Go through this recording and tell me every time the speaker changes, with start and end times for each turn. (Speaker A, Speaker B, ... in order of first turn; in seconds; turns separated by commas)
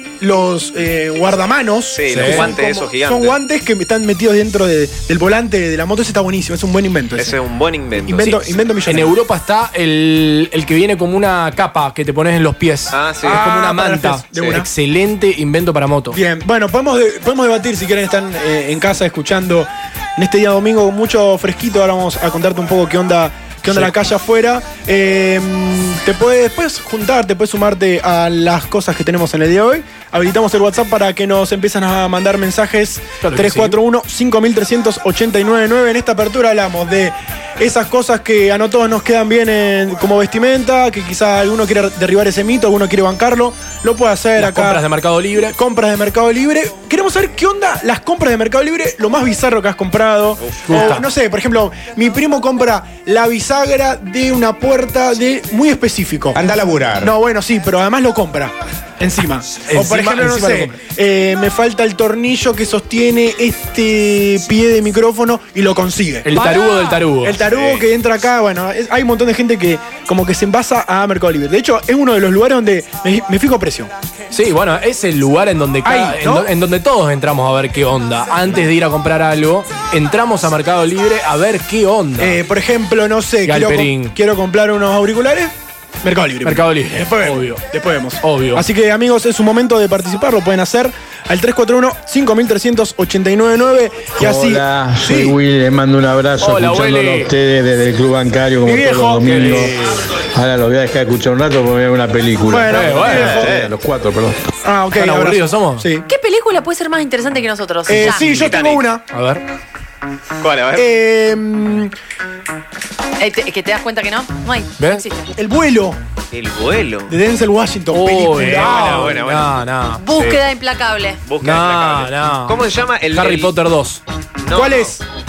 Speaker A: 0.2-7.3, Speaker B: 1.9-3.4, Speaker C: 2.1-2.5, Speaker B: 7.2-8.4, Speaker A: 8.0-9.2, Speaker C: 8.8-16.2, Speaker B: 12.9-13.4, Speaker A: 13.2-14.7, Speaker A: 16.1-44.8, Speaker C: 33.2-33.8, Speaker C: 44.4-45.5, Speaker A: 45.4-56.4, Speaker B: 50.4-50.9, Speaker C: 50.7-51.0, Speaker A: 57.0-66.6, Speaker C: 59.6-60.7, Speaker C: 66.2-67.4, Speaker A: 67.2-73.9, Speaker B: 67.4-67.8, Speaker C: 74.3-82.4, Speaker A: 75.8-76.5, Speaker A: 82.2-95.4, Speaker C: 83.5-84.2, Speaker C: 86.4-87.6, Speaker C: 88.2-88.6, Speaker D: 94.2-99.7, Speaker C: 96.4-97.3, Speaker A: 98.6-99.6, Speaker C: 99.2-100.1, Speaker D: 100.3-104.4, Speaker A: 102.4-103.6, Speaker C: 102.7-103.4, Speaker B: 103.0-103.7, Speaker A: 104.6-106.0, Speaker C: 104.9-105.9, Speaker E: 106.0-108.2, Speaker A: 107.9-109.0, Speaker B: 108.2-108.8, Speaker C: 109.1-109.4, Speaker B: 110.4-110.9, Speaker A: 110.7-111.9, Speaker E: 113.2-115.3, Speaker A: 115.3-116.0, Speaker B: 116.3-117.1, Speaker A: 117.1-119.2, Speaker C: 117.9-120.4, Speaker B: 118.3-119.7, Speaker E: 120.0-121.2, Speaker B: 121.2-123.5, Speaker C: 121.4-122.6, Speaker C: 123.1-124.0, Speaker B: 124.4-124.9, Speaker A: 124.5-125.0